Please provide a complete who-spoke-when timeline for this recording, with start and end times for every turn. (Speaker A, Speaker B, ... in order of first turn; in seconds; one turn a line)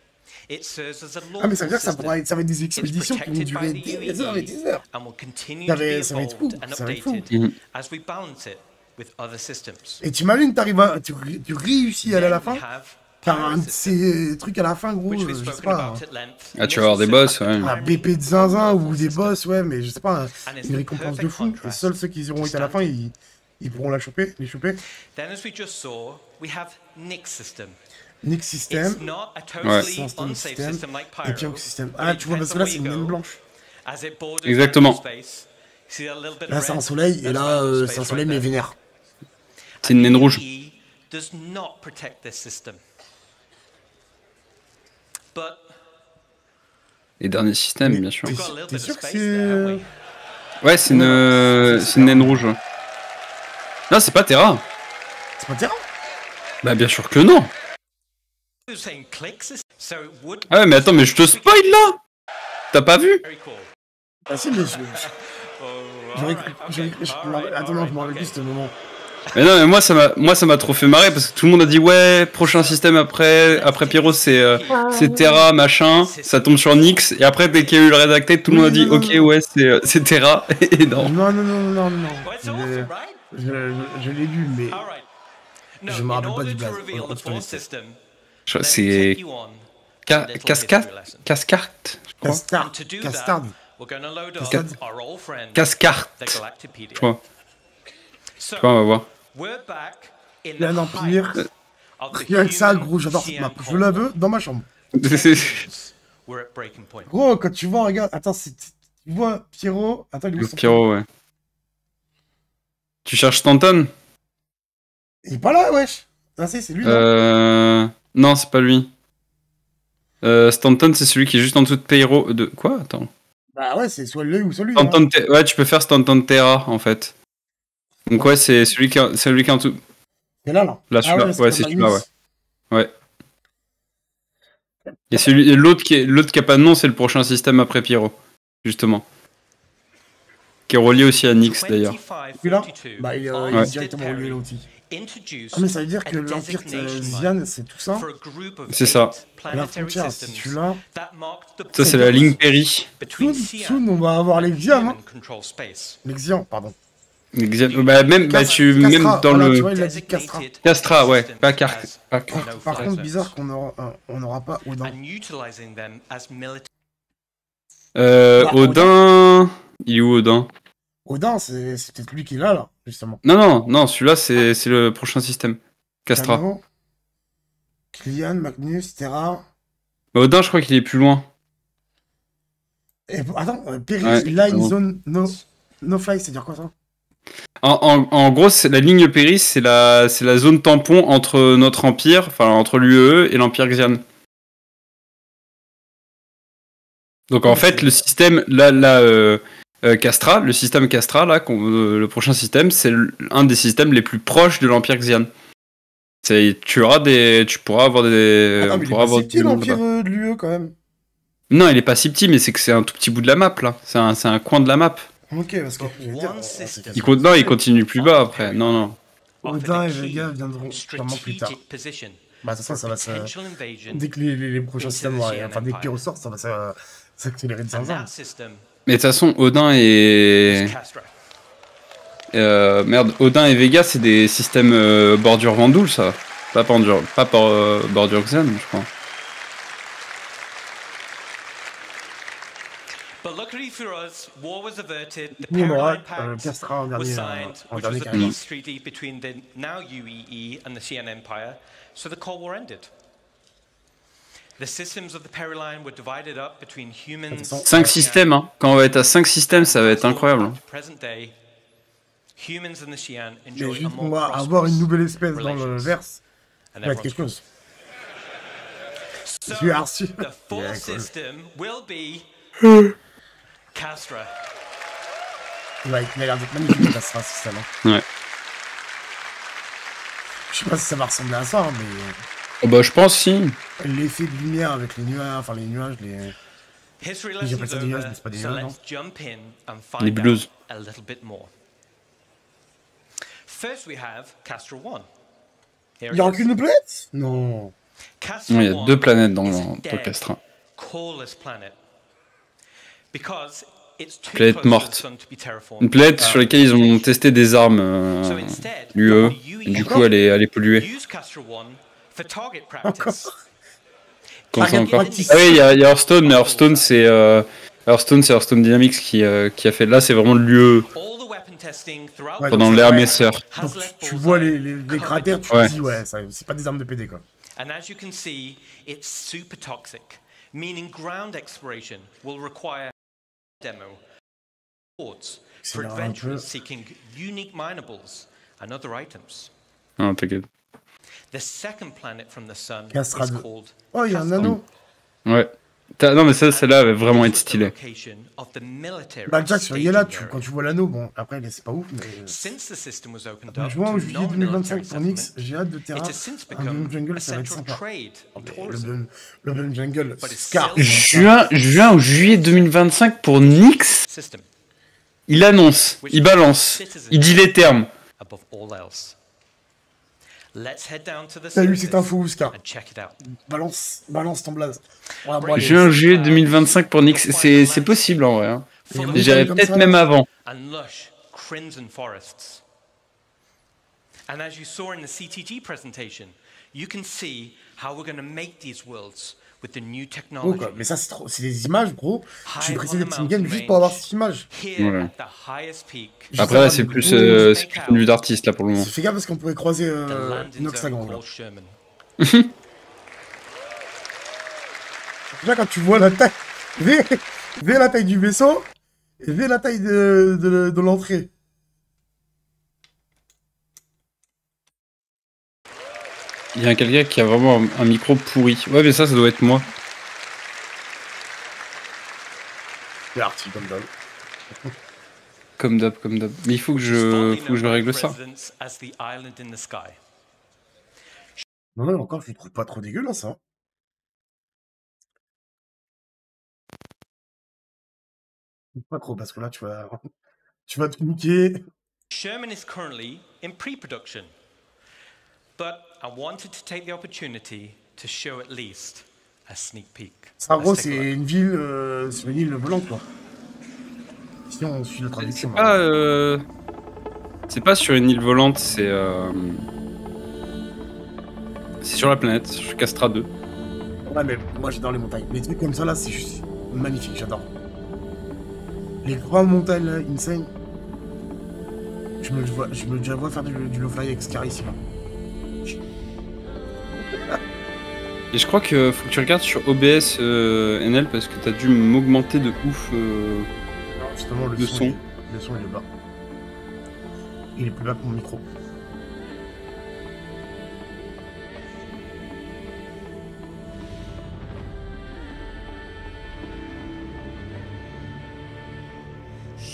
Speaker A: 0.5-2.2
Speaker B: 1.4-4.8
Speaker A: 2.8-10.0
Speaker B: 5.7-7.3
Speaker B: 10.0-12.6
Speaker A: 12.1-14.0
Speaker B: 13.2-16.0
Speaker A: 15.1-19.4
Speaker C: 16.5-17.7
Speaker B: 17.6-24.8
Speaker A: 20.4-22.9
Speaker A: 25.1-27.8
Speaker B: 28.2-29.0
Speaker A: 28.7-33.2
Speaker B: 29.8-33.4
Speaker A: 33.9-38.5
Speaker C: 34.4-35.0
Speaker B: 36.5-38.8
Speaker A: 39.8-42.8
Speaker C: 39.8-40.4
Speaker A: 45.3-45.7
Speaker C: 47.2-48.3
Speaker B: 47.8-49.8
Speaker A: 48.2-49.9
Speaker C: 50.6-52.6
Speaker B: 50.9-52.5
Speaker C: 53.9-54.6
Speaker B: 55.4-55.8
Speaker C: 56.6-57.5
Speaker A: 58.7-62.0
Speaker C: 60.5-62.0
Speaker C: 62.7-63.2
Speaker A: 63.2-63.7
Speaker B: 64.3-65.0
Speaker A: 64.9-68.4
Speaker B: 66.1-68.7
Speaker C: 69.3-81.1
Speaker A: 72.4-72.8
Speaker A: 73.4-77.9
Speaker B: 74.7-75.5
Speaker B: 78.5-79.3
Speaker B: 81.0-84.8
Speaker A: 82.2-83.2
Speaker A: 84.7-85.0
Speaker A: 85.8-88.0
Speaker B: 85.8-87.6
Speaker C: 88.5-89.2
Speaker A: 88.5-91.3
Speaker C: 90.1-92.4
Speaker B: 92.2-93.5
Speaker A: 92.5-97.1
Speaker B: 94.4-94.8
Speaker C: 95.5-96.4
Speaker A: 98.4-101.4
Speaker C: 98.6-99.1
Speaker B: 100.6-101.4
Speaker A: 102.0-104.2
Speaker B: 102.1-104.7
Speaker C: 104.9-105.7
Speaker A: 104.9-107.1
Speaker B: 107.1-110.8
Speaker C: 110.4-111.1
Speaker C: 113.0-113.9
Speaker B: 115.2-117.1
Speaker C: 116.8-118.9
Speaker C: 120.2-123.1
Speaker B: 123.5-125.0
Speaker C: 124.7-127.1
Speaker C: 128.1-129.8
Speaker B: 130.4-132.0
Speaker C: 130.9-132.0
Speaker C: 135.1-139.0
Speaker C: 140.7-142.0
Speaker A: 140.9-147.3
Speaker B: 142.4-144.7
Speaker B: 145.5-148.1
Speaker A: 147.9-152.4
Speaker C: 148.7-149.1
Speaker B: 149.5-150.8
Speaker C: 151.7-152.9
Speaker B: 151.7-152.4
Speaker A: 153.0-156.0
Speaker B: 153.1-155.0
Speaker B: 156.0-156.8
Speaker C: 157.3-159.7
Speaker A: 157.7-163.3
Speaker B: 158.3-160.4
Speaker C: 160.6-162.9
Speaker B: 162.3-165.0
Speaker A: 164.8-166.7
Speaker C: 167.9-170.5
Speaker B: 168.4-169.0
Speaker B: 171.0-173.2
Speaker C: 173.2-176.4
Speaker B: 176.1-176.6
Speaker B: 177.9-179.5
Speaker C: 180.1-181.2
Speaker B: 183.1-186.7
Speaker C: 184.0-184.7
Speaker C: 187.6-194.0
Speaker C: 197.3-205.3
Speaker B: 197.4-197.9
Speaker C: 206.2-209.8
Speaker B: 208.6-210.7
Speaker C: 211.5-215.1
Speaker B: 215.3-217.6
Speaker A: 215.8-224.1
Speaker C: 216.9-218.9
Speaker B: 219.4-221.6
Speaker B: 222.4-223.3
Speaker B: 223.9-228.1
Speaker A: 224.8-226.0
Speaker A: 227.7-228.7
Speaker C: 228.9-230.7
Speaker A: 230.4-231.1
Speaker C: 232.3-238.9
Speaker A: 243.2-252.9
Speaker B: 245.4-248.3
Speaker A: 254.6-258.4
Speaker B: 257.3-258.0
Speaker C: 257.6-260.6
Speaker A: 259.4-261.4
Speaker A: 262.4-265.9
Speaker B: 263.5-266.2
Speaker A: 266.7-267.3
Speaker B: 266.8-267.4
Speaker A: 269.2-272.3
Speaker B: 269.5-271.1
Speaker A: 273.7-274.3
Speaker B: 275.8-277.7
Speaker B: 280.5-282.2
Speaker C: 282.6-283.6
Speaker B: 283.8-286.3
Speaker A: 287.0-291.5
Speaker B: 287.4-288.8
Speaker C: 290.0-290.5
Speaker A: 293.5-295.1
Speaker A: 296.0-296.5
Speaker B: 296.1-297.7
Speaker A: 298.2-300.2
Speaker C: 298.5-300.4
Speaker A: 300.8-301.8
Speaker A: 303.1-307.2
Speaker C: 304.3-305.0
Speaker C: 305.8-310.9
Speaker B: 306.2-306.4
Speaker A: 308.2-313.3
Speaker B: 309.7-310.1
Speaker B: 312.8-313.4
Speaker A: 314.5-317.0
Speaker C: 314.5-320.9
Speaker B: 314.5-315.6
Speaker A: 320.9-325.9
Speaker B: 322.4-327.2
Speaker C: 322.5-323.4
Speaker A: 327.6-332.9
Speaker A: 333.6-334.0
Speaker A: 335.0-339.5
Speaker B: 335.6-336.4
Speaker C: 340.0-340.5
Speaker A: 341.3-344.6
Speaker B: 342.9-344.6
Speaker C: 345.2-347.7
Speaker A: 346.5-350.4
Speaker B: 349.2-352.4
Speaker A: 352.2-355.4
Speaker B: 353.5-357.8
Speaker A: 355.9-358.9
Speaker B: 358.4-361.4
Speaker A: 360.2-364.5
Speaker C: 360.7-364.0
Speaker C: 365.3-367.9
Speaker A: 366.0-369.2
Speaker A: 370.5-373.2
Speaker B: 371.5-372.5
Speaker B: 373.4-375.9
Speaker A: 375.3-379.6
Speaker C: 375.5-380.3
Speaker B: 378.9-380.1
Speaker A: 380.4-382.6
Speaker A: 384.3-390.8
Speaker B: 390.4-394.5
Speaker A: 392.4-398.1
Speaker C: 394.8-395.1
Speaker C: 396.3-398.9
Speaker B: 396.3-397.5
Speaker B: 398.8-401.2
Speaker A: 400.1-401.7
Speaker C: 402.2-402.5
Speaker B: 405.3-408.7
Speaker B: 409.2-411.3
Speaker C: 416.5-419.6
Speaker B: 423.1-423.9
Speaker C: 425.6-428.2
Speaker A: 426.8-430.0
Speaker B: 431.7-433.4
Speaker B: 438.7-440.1
Speaker B: 440.7-441.6
Speaker A: 442.1-444.3
Speaker A: 445.6-451.1
Speaker B: 450.4-453.1
Speaker B: 454.5-455.8
Speaker C: 455.2-456.4
Speaker C: 457.5-459.6
Speaker C: 461.8-463.3
Speaker B: 464.0-467.5
Speaker B: 469.0-470.5
Speaker B: 472.2-474.8
Speaker B: 477.0-477.4
Speaker C: 478.3-483.5
Speaker B: 483.9-485.9
Speaker C: 484.6-484.9
Speaker B: 487.6-488.4